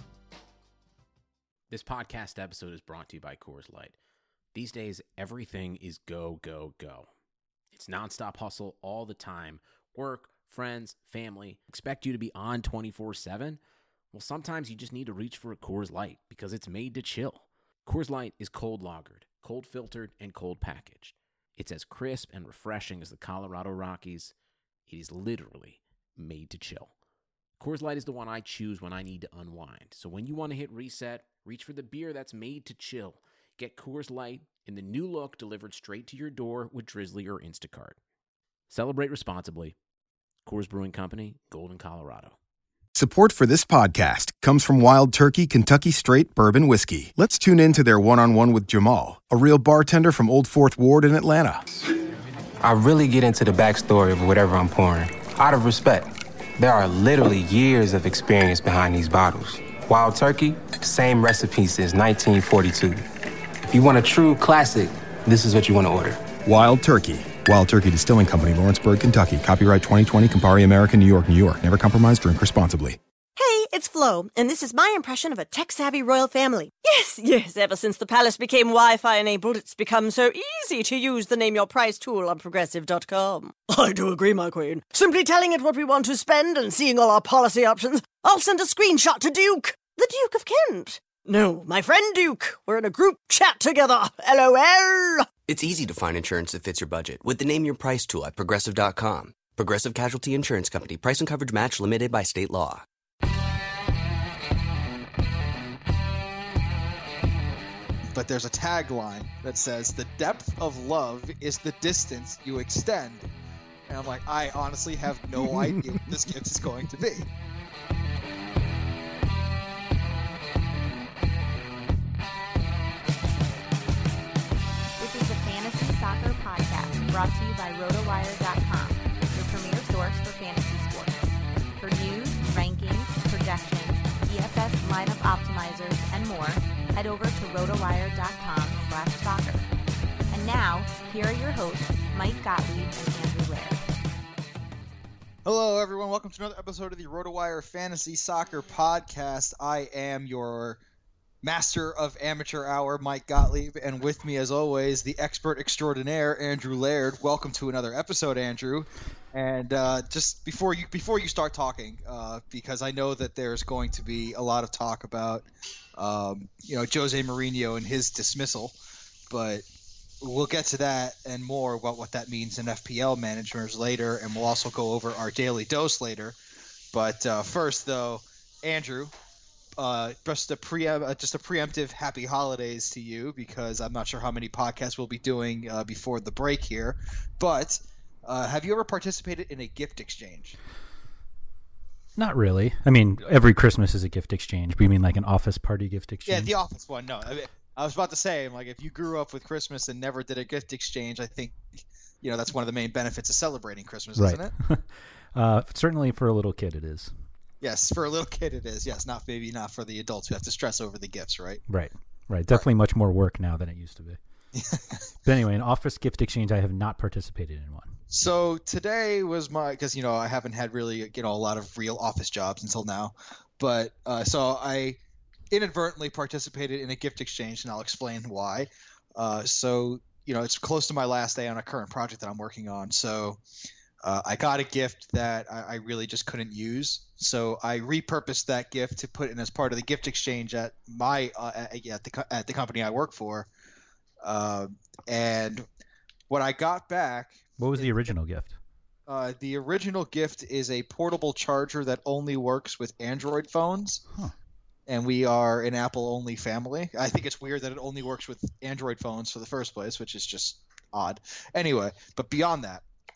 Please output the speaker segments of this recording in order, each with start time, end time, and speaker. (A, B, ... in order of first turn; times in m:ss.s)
0:01.7-0:04.0 A
0:04.5-0:07.1 A
0:07.7-0:13.6 A
0:14.1-0:24.3 A
0:24.9-0:26.9 A
0:27.6-0:38.0 A
0:38.7-0:39.7 A
0:40.4-0:42.4 A
0:42.9-0:51.6 B
0:52.6-1:03.0 C
1:03.7-1:06.2 C
1:06.4-1:13.0 B
1:13.4-1:35.3 D
1:35.5-1:42.8 E
1:48.1-1:53.3 F
1:53.9-1:57.3 F
1:55.5-1:56.0 G
2:05.0-2:11.2 H
2:11.8-2:19.6 H
2:20.3-2:23.8 H
2:25.4-2:30.8 F
2:31.4-2:45.4 F
2:46.0-2:48.7 F
2:49.3-2:49.6 F
2:50.2-2:56.4 F
2:56.9-2:59.1 F
2:59.8-3:10.6 F
3:12.2-3:16.5 G
3:16.3-3:24.5 F
3:24.2-3:27.1 G
3:27.6-3:31.6 F
3:31.7-3:34.2 G
3:34.5-3:35.0 F
3:35.2-3:37.9 G
3:38.1-3:45.0 F
3:45.5-3:53.4 F
3:54.0-4:03.5 F
4:04.2-4:05.6 F
4:06.3-4:08.0 F
4:07.6-4:08.6 G
4:09.1-4:14.0 F
4:14.9-4:22.8 F